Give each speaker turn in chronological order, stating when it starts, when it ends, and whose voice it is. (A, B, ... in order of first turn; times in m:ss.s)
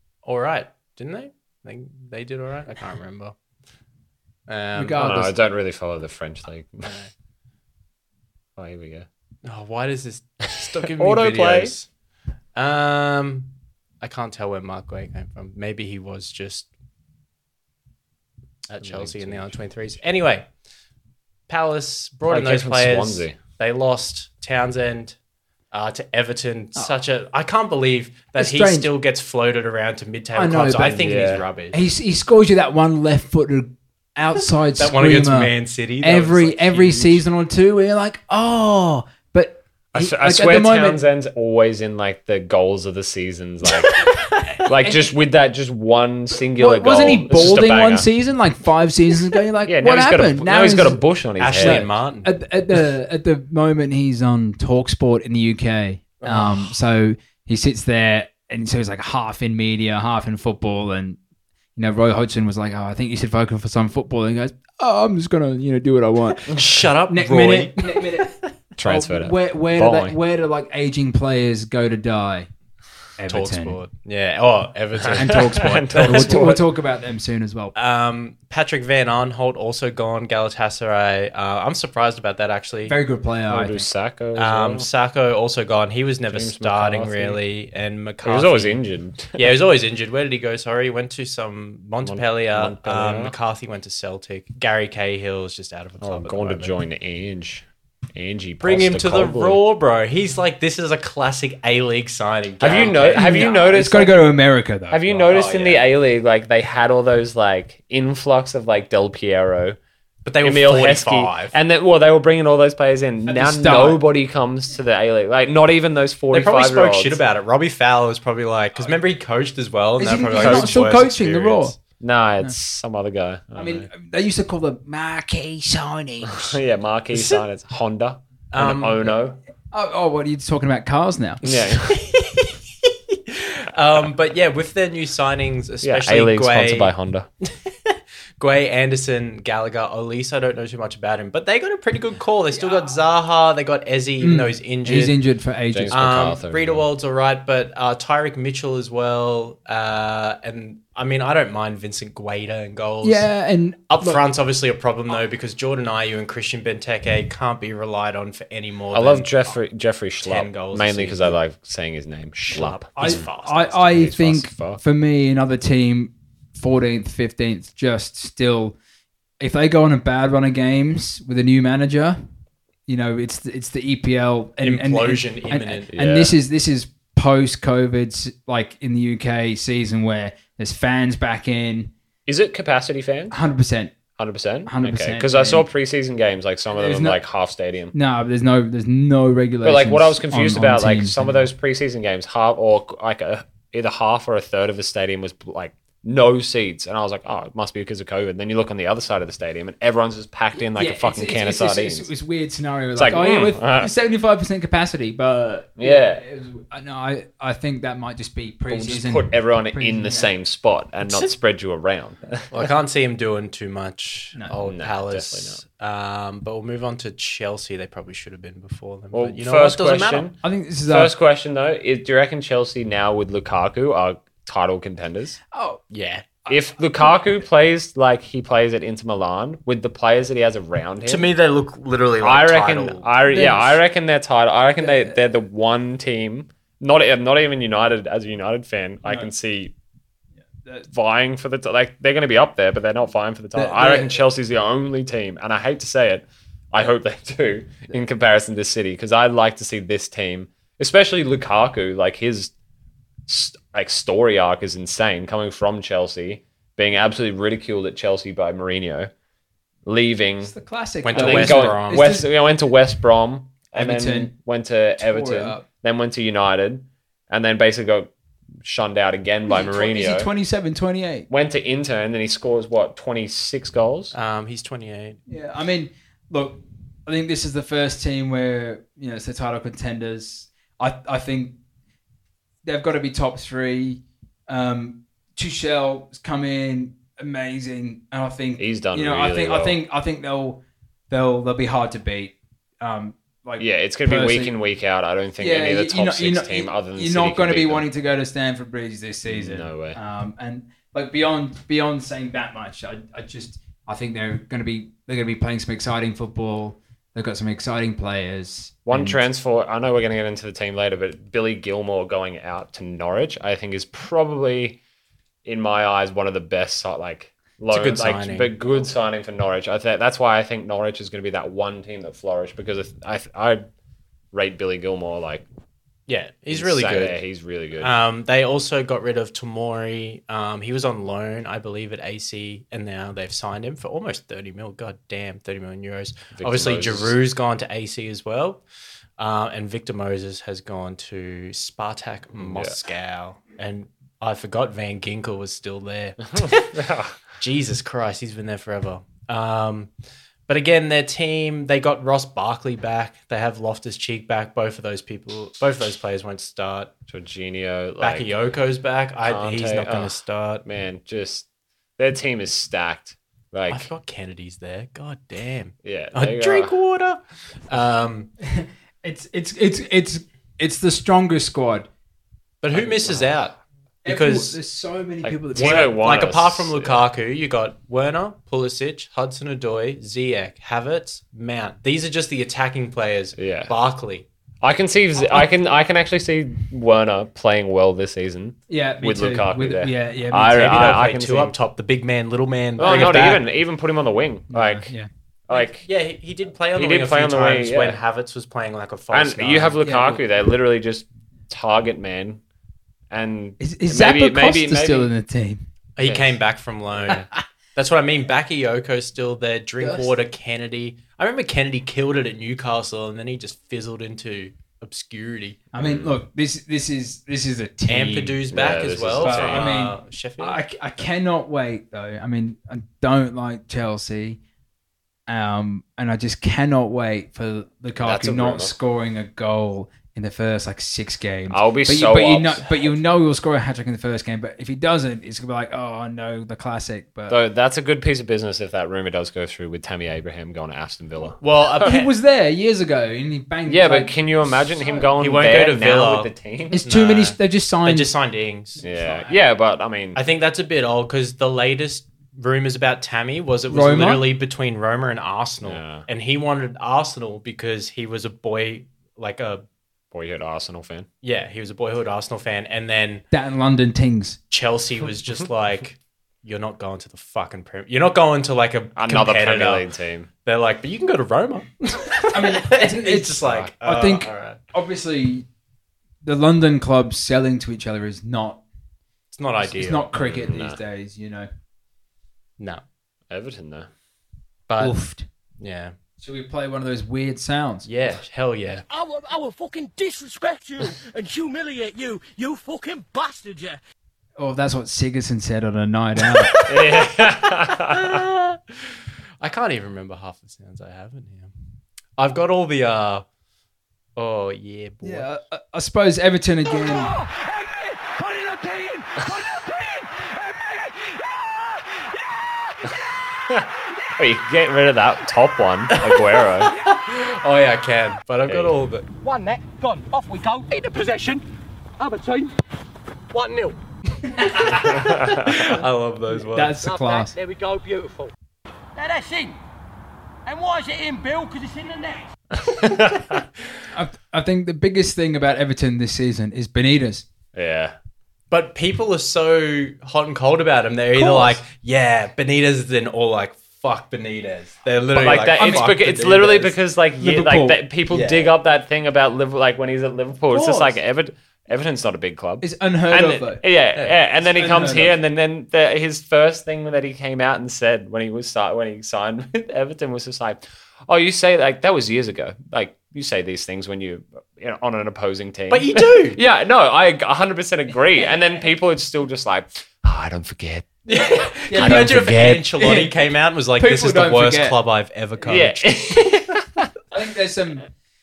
0:00.2-0:03.4 A
0:04.5-0:05.2 A
0:04.8-0:05.3 B
0:05.0-0:06.9 C
0:06.8-0:07.1 A
0:08.6-0:09.1 C
0:09.4-0:11.9 A
0:10.8-0:11.7 C
0:12.6-0:13.5 A
0:14.0-0:16.7 A
0:18.7-0:20.5 A
0:18.8-0:19.6 C
0:21.5-0:25.2 A
0:22.3-0:23.4 C
0:25.7-0:31.9 A
0:28.4-0:28.9 B
0:30.3-0:31.1 B
0:30.8-0:31.4 C
0:31.7-0:41.0 B
0:34.8-0:37.2 A
0:39.9-0:48.1 C
0:44.2-0:45.1 B
0:46.6-1:01.2 B
0:49.6-0:51.9 C
0:51.4-0:52.3 A
0:56.2-0:56.7 A
1:01.8-1:06.5 B
1:06.5-1:08.0 A
1:07.1-1:12.5 B
1:08.8-1:10.2 C
1:13.2-1:13.8 B
1:13.3-1:16.6 A
1:15.0-1:16.6 C
1:15.1-1:17.7 B
1:17.7-1:23.0 A
1:22.9-1:23.9 B
1:23.5-1:24.9 C
1:24.4-1:28.8 A
1:26.3-1:27.4 C
1:28.2-1:29.5 C
1:29.3-1:36.8 A
1:32.0-1:33.3 C
1:36.0-1:39.6 C
1:38.6-1:43.8 A
1:42.6-1:44.1 C
1:43.1-1:45.3 B
1:44.9-1:49.8 C
1:45.2-1:45.8 A
1:50.2-1:51.6 A
1:50.4-1:57.2 C
1:53.2-1:54.0 B
1:56.3-2:01.8 A
2:00.0-2:01.7 B
2:00.4-2:00.7 C
2:02.0-2:03.9 C
2:03.5-2:06.5 B
2:06.2-2:09.4 C
2:07.1-2:07.4 A
2:08.5-2:09.1 A
2:09.7-2:11.8 B
2:11.4-2:12.0 C
2:13.3-2:16.9 A
2:15.8-2:17.3 C
2:17.6-2:25.2 A
2:22.5-2:22.9 B
2:24.2-2:26.0 B
2:25.7-2:26.8 C
2:25.9-2:33.3 A
2:33.0-2:34.2 B
2:33.9-2:39.6 A
2:38.9-2:44.8 C
2:40.2-2:41.4 A
2:42.5-2:43.8 A
2:43.0-2:48.8 B
2:49.4-2:52.2 B
2:52.9-3:01.9 B
2:54.6-2:55.9 A
2:55.9-2:56.3 C
3:02.2-3:03.4 C
3:03.3-3:04.0 B
3:04.2-3:07.9 C
3:04.6-3:05.7 B
3:06.7-3:07.2 B
3:07.9-3:11.5 B
3:09.6-3:22.1 C
3:20.6-3:30.3 B
3:23.0-3:23.9 C
3:25.8-3:26.2 C
3:28.7-3:32.7 C
3:32.5-3:40.3 A
3:34.6-3:35.6 C
3:39.1-3:45.4 C
3:40.4-3:41.1 B
3:45.5-3:45.8 B
3:45.9-3:46.4 A
3:46.5-3:51.3 C
3:51.0-3:53.1 A
3:52.2-3:59.7 C
3:53.3-3:53.8 B
3:54.8-3:55.2 B
3:59.0-3:59.3 B
4:00.5-4:00.9 B
4:00.9-4:12.5 C
4:03.6-4:04.1 B
4:13.3-4:19.1 C
4:19.8-4:20.5 C
4:20.4-4:22.3 B
4:21.0-4:22.2 A
4:21.1-4:28.1 C
4:23.7-4:24.3 B
4:25.0-4:25.6 B
4:28.6-4:30.3 C
4:29.5-4:31.3 B
4:31.3-4:34.1 C
4:34.1-4:35.2 A
4:35.3-4:41.6 B
4:42.6-4:54.6 B
4:48.6-4:49.8 C
4:53.6-4:57.9 C
4:55.4-5:09.2 B
4:59.2-5:00.0 C
5:08.8-5:14.8 C
5:15.4-5:23.6 C
5:17.7-5:18.5 A
5:24.3-5:25.4 C
5:26.1-5:27.2 A
5:26.5-5:27.9 C
5:27.8-5:38.6 A
5:36.3-5:37.2 C
5:39.2-5:46.6 A
5:42.4-5:42.8 C
5:46.4-5:47.2 C
5:47.4-5:49.9 A
5:50.5-5:56.9 A
5:57.1-5:58.3 C
5:58.0-6:00.6 A
5:59.2-6:01.4 C
6:02.0-6:03.9 C
6:03.7-6:08.3 A
6:05.8-6:06.7 C
6:08.4-6:11.9 B
6:12.6-6:13.5 A
6:12.7-6:13.3 C
6:14.0-6:15.9 B
6:14.0-6:14.6 A
6:15.2-6:17.0 C
6:15.6-6:24.3 A
6:23.4-6:23.7 C
6:24.6-6:31.5 C
6:28.7-6:31.0 B
6:30.6-6:33.4 A
6:32.8-6:34.9 C
6:32.8-6:33.1 B
6:34.5-6:35.1 B
6:35.5-6:35.8 C
6:35.5-6:39.8 A
6:36.7-6:38.0 C
6:39.1-6:42.4 C
6:39.8-6:40.2 B
6:43.1-6:45.1 C
6:43.6-6:45.6 B
6:46.0-6:47.2 A
6:46.0-6:46.3 C
6:46.9-6:47.2 C
6:47.7-6:55.6 A
6:49.8-6:50.1 B
6:55.7-6:58.4 B
6:55.8-6:56.2 C
6:57.9-7:00.6 A
6:58.5-6:59.7 C
6:59.2-7:04.4 B
7:05.3-7:17.4 B
7:08.0-7:08.7 C
7:11.5-7:13.0 C
7:17.3-7:22.0 C
7:21.4-7:22.1 A
7:21.8-7:25.1 B
7:23.7-7:26.8 C
7:25.2-7:26.3 A
7:26.7-7:28.1 B
7:26.8-7:29.2 A
7:28.8-7:30.2 C
7:30.1-7:39.6 A
7:33.7-7:34.2 B
7:35.6-7:36.0 C
7:40.1-7:41.1 C
7:41.2-7:43.2 A
7:43.3-7:44.4 B
7:44.5-7:49.8 A
7:49.0-7:50.3 C
7:50.4-7:54.6 A
7:52.3-7:55.5 B
7:53.4-7:53.7 C
7:56.2-7:58.6 B
7:59.3-8:00.1 A
7:59.6-8:01.5 B
8:00.1-8:00.8 C
8:03.3-8:03.9 C
8:04.7-8:05.0 A
8:04.8-8:05.2 B
8:05.6-8:05.9 A
8:06.2-8:07.9 B
8:07.8-8:08.8 A
8:08.9-8:13.8 D
8:14.4-8:16.6 B
8:16.6-8:18.2 C
8:17.7-8:18.6 A
8:19.4-8:21.5 A
8:22.2-8:23.2 A
8:24.2-8:25.3 A
8:25.0-8:27.1 B
8:26.7-8:33.0 D
8:32.9-8:36.8 C
8:35.9-8:39.0 A
8:38.5-8:38.7 C
8:39.2-8:41.4 D
8:42.0-8:42.6 D
8:43.3-8:43.8 D
8:44.4-8:45.0 B
8:44.6-8:46.8 A
8:44.8-8:45.6 C
8:46.3-8:47.3 B
8:46.8-8:48.3 D
8:49.0-8:49.6 D
8:50.4-8:52.3 D
8:52.6-8:53.5 C
8:53.9-8:57.2 B
8:57.5-8:57.9 C
8:58.5-9:06.7 A
9:01.1-9:01.6 B
9:05.1-9:31.0 C
9:05.6-9:05.9 B
9:07.2-9:07.8 B
9:08.1-9:08.5 A
9:10.5-9:10.9 B
9:12.6-9:13.6 B
9:14.4-9:15.1 B
9:25.7-9:26.4 A
9:31.1-9:36.2 A
9:31.1-9:33.1 B
9:31.7-9:32.6 C
9:33.8-9:34.8 B
9:35.5-9:36.9 C
9:37.1-9:37.9 B